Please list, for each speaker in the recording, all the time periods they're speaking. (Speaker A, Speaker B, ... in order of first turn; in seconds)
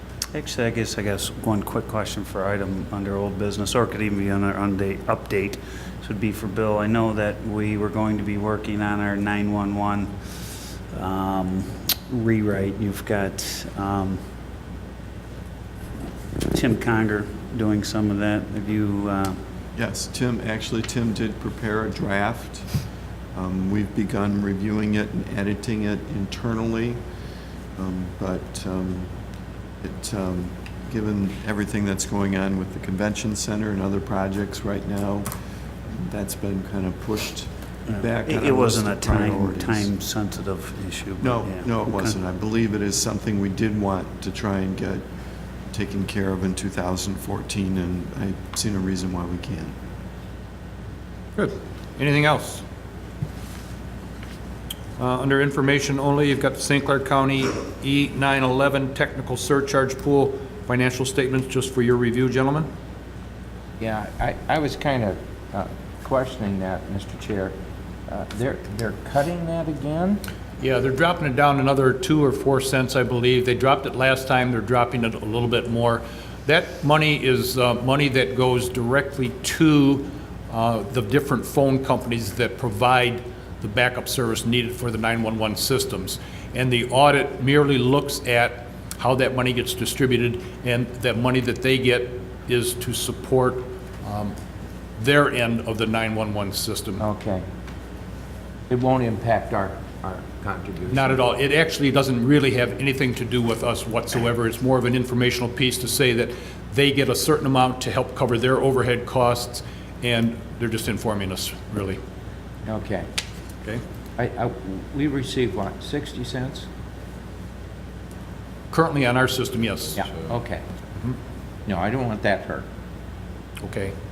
Speaker A: 0.3-14.2, 16.5-19.4, 37.9-42.2
Speaker B: 19.8-22.7, 23.3-27.0, 27.8-29.1, 29.8-35.3, 35.9-39.9, 41.2-45.1, 45.7-49.8
Speaker C: 51.4-52.6, 55.0-62.7, 70.6-94.4, 95.0-97.0, 100.9-112.0, 118.7-120.0, 123.6-123.9
Speaker D: 63.8-67.6, 68.1-70.2, 97.0-97.5, 98.7-101.3, 112.7-113.1, 114.2-116.7, 120.0-120.7, 121.7-122.7